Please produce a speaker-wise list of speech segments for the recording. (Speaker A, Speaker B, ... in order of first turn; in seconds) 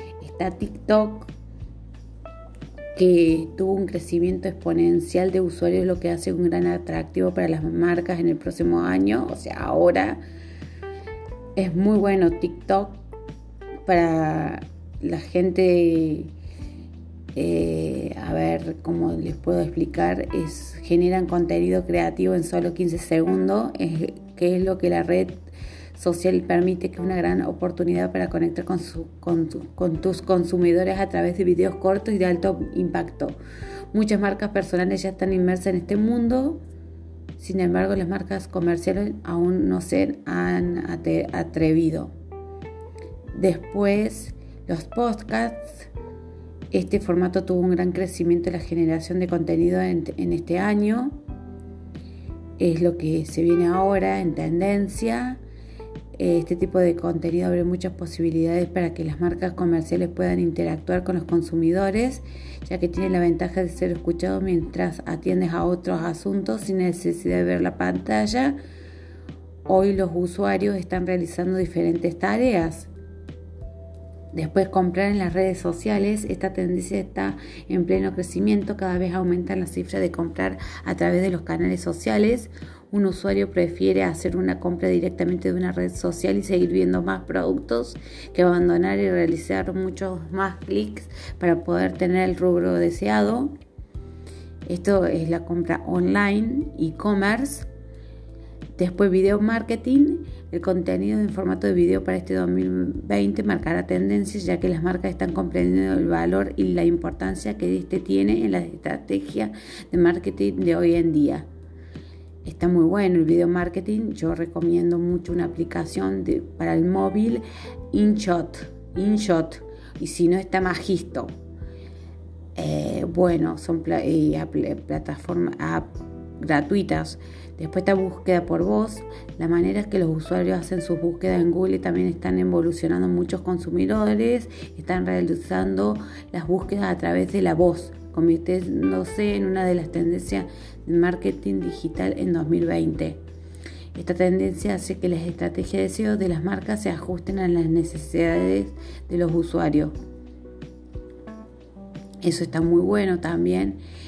Speaker A: 0.2-1.3, 2.9-10.2, 11.6-13.0, 13.8-16.3, 17.3-33.4, 33.9-36.6, 37.4-42.1, 43.3-45.9, 46.7-51.1, 52.6-55.4, 56.1-68.6, 69.7-72.9, 74.3-93.5, 94.7-97.7, 98.8-111.5, 112.4-121.3, 122.5-143.2, 143.9-149.9, 152.2-153.8